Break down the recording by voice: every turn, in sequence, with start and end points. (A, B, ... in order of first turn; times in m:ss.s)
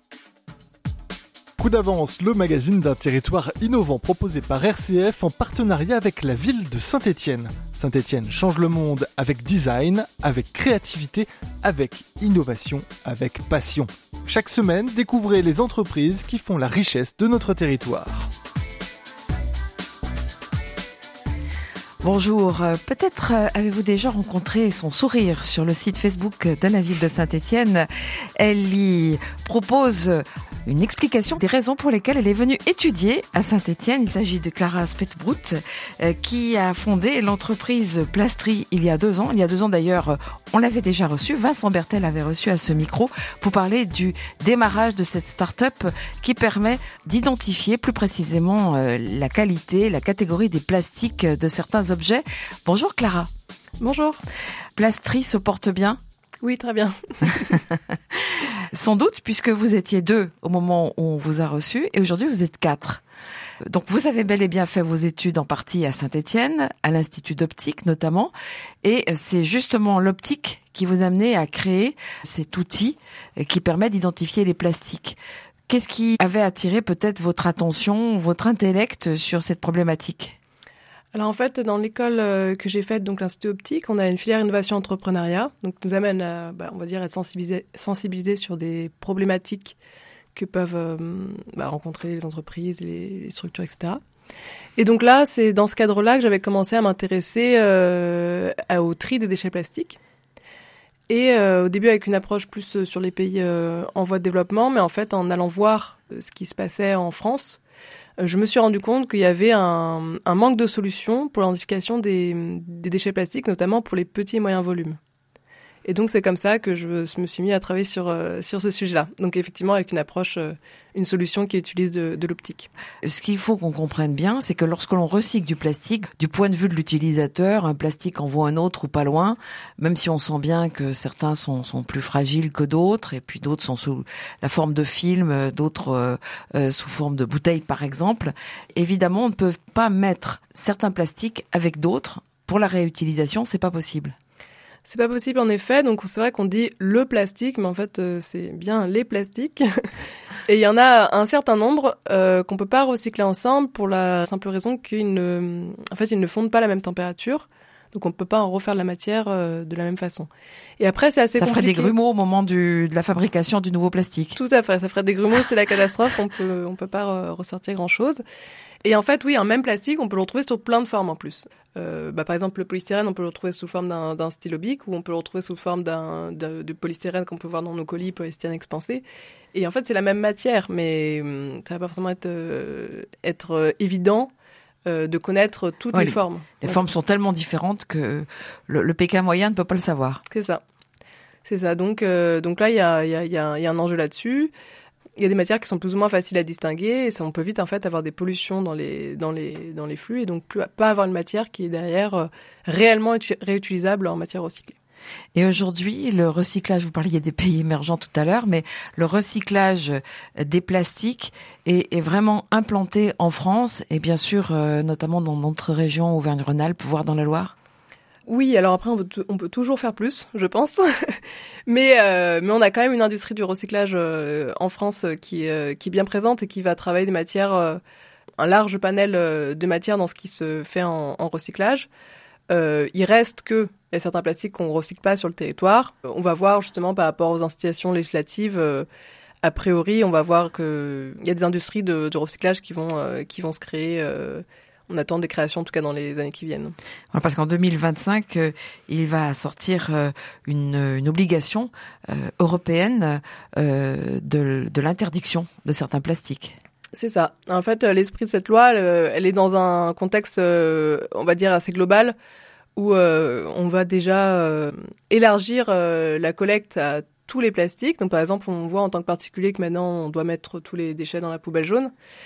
0:01.6-0:18.3 A
0:22.0-0:53.3 B
0:53.8-0:54.2 C
0:54.8-0:56.0 B
0:56.4-0:57.6 C
0:58.7-1:03.0 B
1:03.7-1:20.4 B
1:21.1-1:29.8 C
1:30.3-1:34.0 C
1:34.8-1:40.0 C
1:41.1-1:47.6 C
1:48.2-1:55.0 C
1:55.8-2:02.7 C
2:03.0-2:24.2 B
2:24.8-2:29.6 C
2:30.5-2:41.9 C
2:41.4-2:44.4 B
2:44.4-2:48.2 C
2:48.8-3:04.3 C
3:04.9-3:06.8 C
3:05.9-3:10.2 B
3:10.3-3:10.6 C
3:11.4-3:14.5 C
3:15.2-3:24.8 C
3:25.4-3:37.5 B
3:38.3-3:47.8 C
3:48.4-3:51.9 C
3:52.5-3:58.9 C
3:59.4-4:06.7 C
4:07.1-4:16.6 B
4:16.9-4:22.2 C
4:22.8-4:31.9 C